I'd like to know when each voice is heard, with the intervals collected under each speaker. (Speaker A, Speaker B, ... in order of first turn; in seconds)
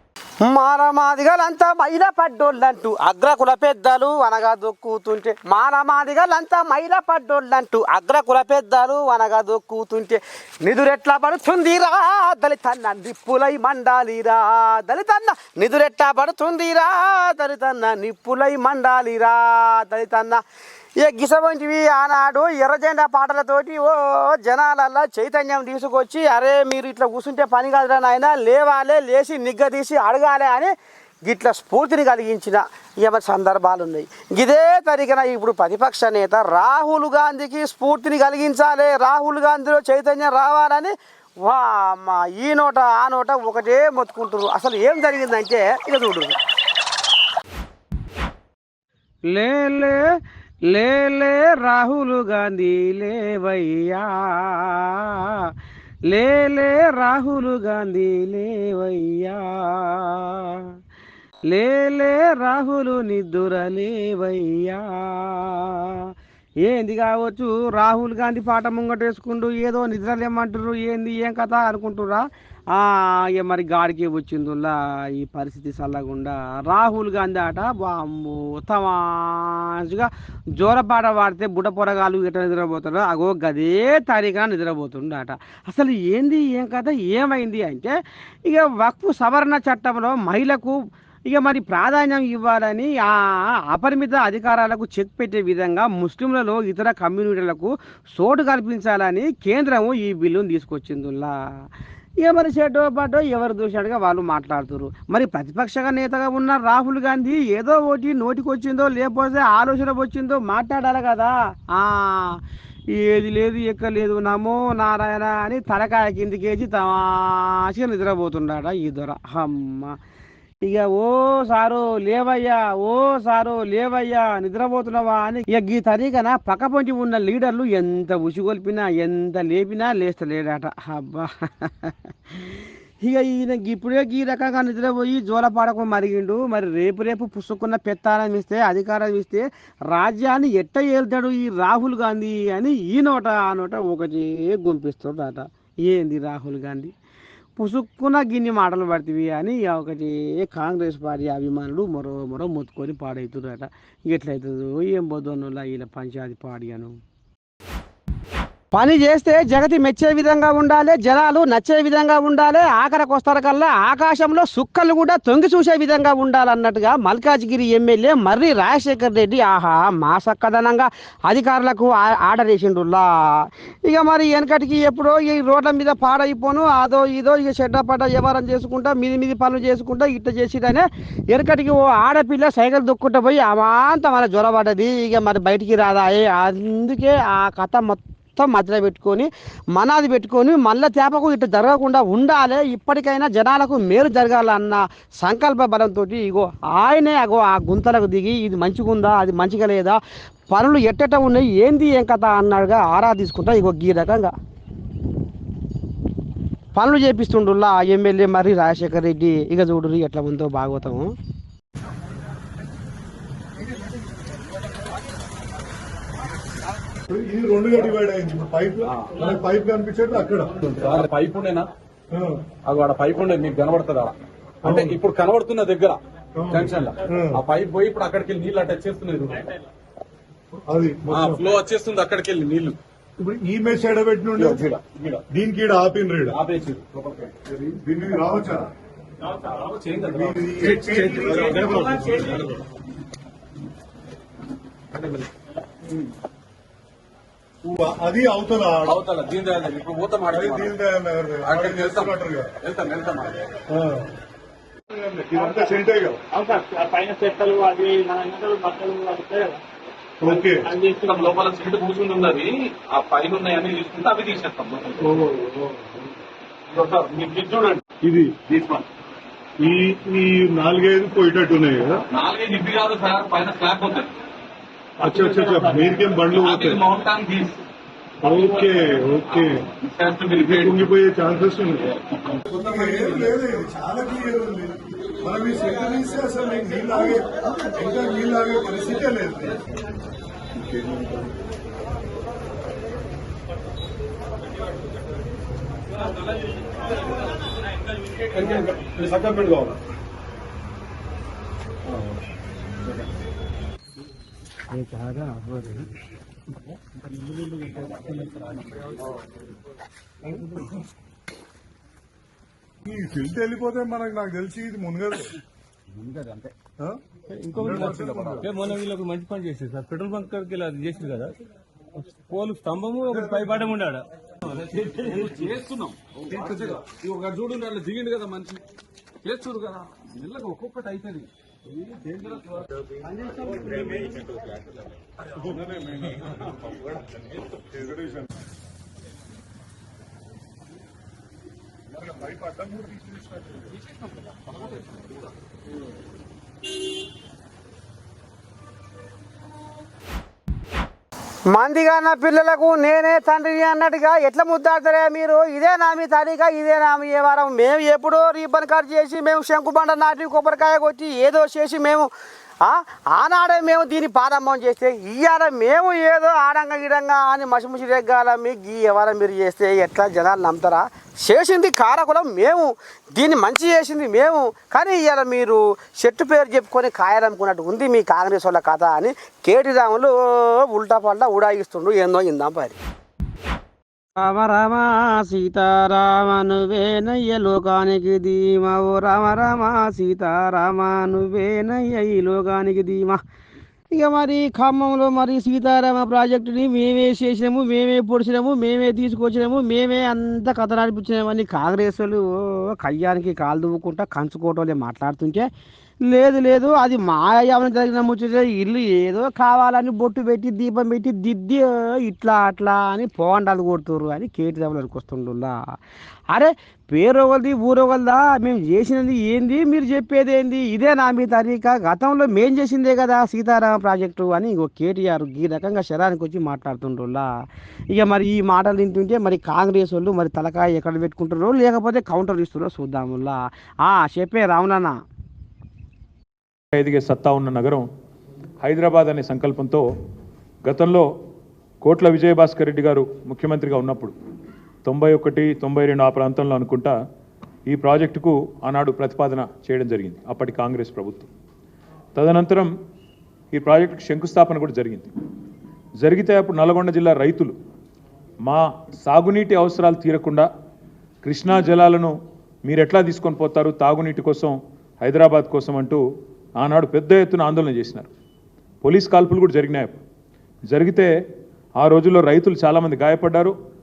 Speaker A: 0.5-20.4, 21.0-30.7, 31.3-46.4, 49.3-50.0, 50.7-55.5, 56.1-60.6, 61.5-65.9, 66.6-90.8, 91.3-101.3, 102.2-112.4, 113.0-120.0, 120.6-131.9, 133.0-146.9, 147.6-156.9, 158.7-200.0, 200.5-204.3, 206.8-211.1, 304.7-305.9, 351.5-362.1, 362.6-382.8, 384.2-393.2, 393.9-405.5, 406.1-415.6, 416.3-427.3, 427.9-435.0
Speaker B: 217.1-220.6, 222.1-222.4, 224.6-224.9, 226.4-227.4, 230.7-231.4, 233.2-234.6, 235.3-236.4, 237.8-238.7, 240.2-242.4, 247.6-249.0, 250.4-252.5, 253.7-254.1, 254.9-256.2, 260.2-260.8, 265.0-265.9, 268.0-268.4, 269.6-272.0, 275.0-276.9, 278.2-279.7, 280.4-281.9, 282.5-289.6, 290.6-291.1, 310.3-310.6, 312.9-315.3, 317.6-318.5, 323.1-323.6, 335.5-336.2, 342.0-343.6
Speaker C: 220.6-221.6, 222.7-224.1, 224.7-225.9, 226.6-229.4, 231.1-232.8, 234.4-235.2, 236.3-237.3, 239.3-242.5, 244.9-245.2, 248.9-250.8, 251.5-252.1, 252.6-253.4, 260.9-265.0, 266.8-267.8, 268.6-268.8, 272.1-274.1, 276.4-277.6, 279.8-280.9, 282.6-283.3, 298.4-299.7, 307.9-308.4, 316.0-316.5, 318.0-318.4, 324.7-328.6, 329.2-332.6, 333.5-334.1
Speaker D: 256.4-259.6
Speaker E: 317.3-317.8, 318.5-321.3, 322.3-324.1, 324.6-325.3
Speaker F: 436.7-437.9, 438.6-439.9, 440.6-441.1, 441.8-444.1, 444.9-446.9, 447.7-451.3, 452.2-452.7, 453.5-455.1, 456.0-457.6, 458.4-460.5, 461.2-462.1, 462.6-466.0, 466.6-468.1, 468.8-470.0, 470.7-471.1, 471.8-473.5